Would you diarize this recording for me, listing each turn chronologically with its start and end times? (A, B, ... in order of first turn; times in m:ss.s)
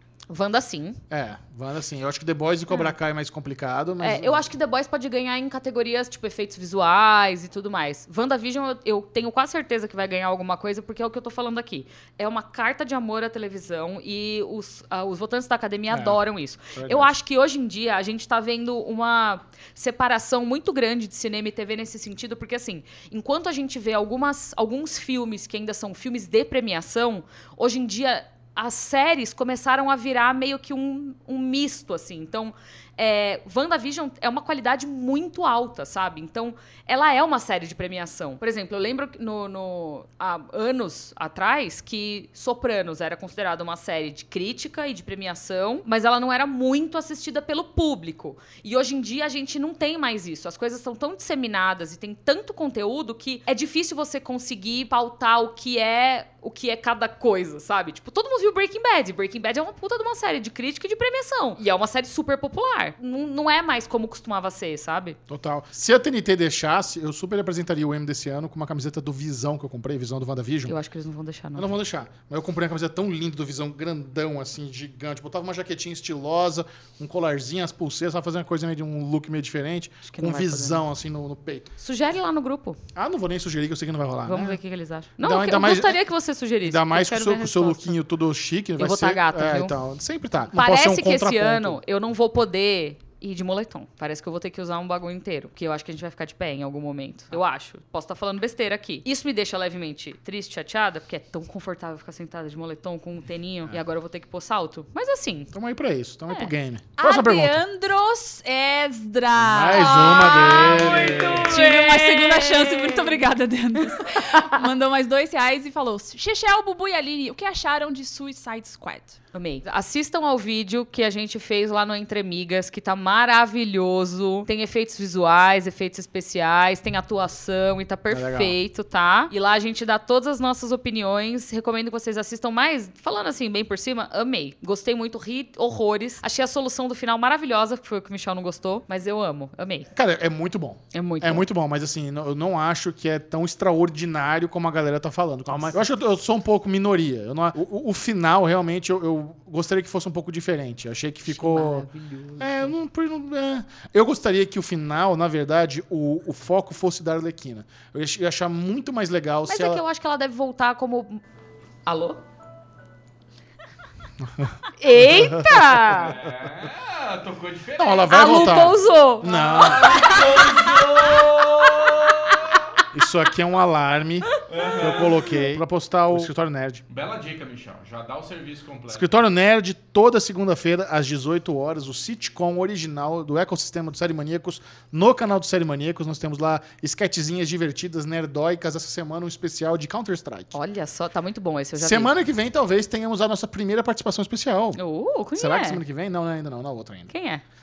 0:00.3-0:01.0 A
0:01.1-0:04.4 B
0:04.0-1:05.2 A
0:15.9-0:17.1 B
1:05.3-1:10.8 B
1:10.7-1:11.7 A
1:11.6-1:21.7 B
1:20.0-1:20.8 A
1:21.8-1:22.8 A
1:23.0-1:24.6 B
1:24.3-1:28.0 A
1:25.2-1:26.0 B
1:26.6-1:31.8 B
1:28.8-1:29.8 A
1:30.5-1:45.5 A
1:45.5-1:47.6 B
1:47.0-1:59.2 C
1:49.4-1:51.5 B
1:49.7-1:53.2 A
1:53.8-1:54.6 A
1:59.3-2:19.9 A
2:08.1-2:08.6 B
2:19.9-2:31.9 B
2:20.9-2:21.5 A
2:25.5-2:25.8 A
2:31.3-2:32.8 A
2:32.4-2:39.8 B
2:39.5-2:41.2 A
2:41.9-2:42.2 A
2:44.2-2:45.5 B
2:44.8-2:46.2 A
2:45.9-2:48.8 D
2:47.8-2:50.2 B
2:48.1-2:51.1 A
2:49.3-2:52.7 D
2:52.9-2:56.8 B
2:54.5-2:55.6 D
2:56.9-2:59.1 D
2:58.9-3:10.5 B
3:10.5-3:12.1 A
3:11.8-3:14.8 B
3:14.8-3:15.8 A
3:15.4-3:17.1 B
3:17.1-3:17.4 A